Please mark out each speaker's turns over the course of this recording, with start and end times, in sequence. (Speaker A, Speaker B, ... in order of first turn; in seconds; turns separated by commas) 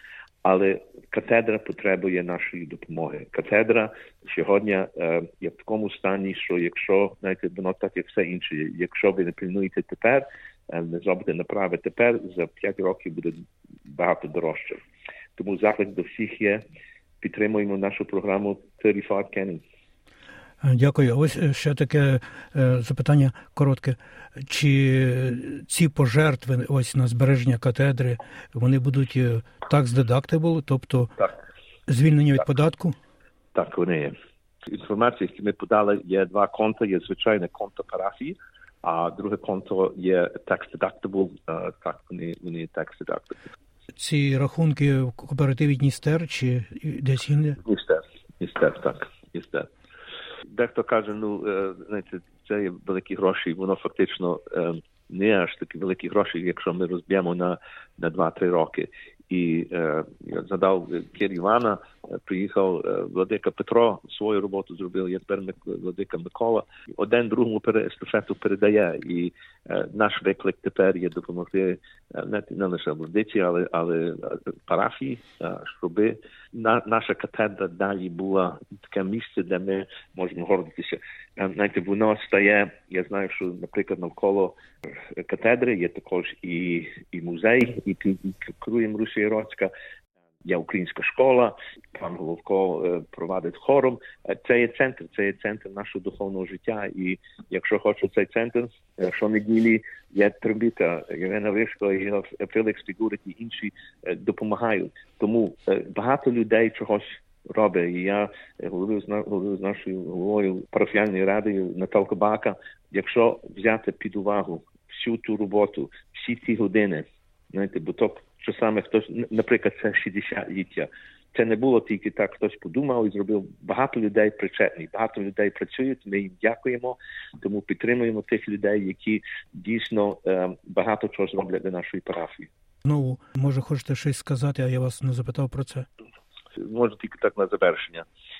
Speaker A: 0.4-14.8, Speaker A: 15.3-16.6, Speaker A: 17.2-19.6, Speaker B: 20.6-31.3, Speaker B: 31.9-33.0, Speaker A: 33.5-34.1, Speaker A: 34.7-43.4, Speaker B: 44.0-47.6, Speaker A: 47.6-49.7, Speaker A: 50.5-89.7, Speaker A: 90.4-132.5, Speaker B: 132.8-135.9, Speaker A: 136.6-138.1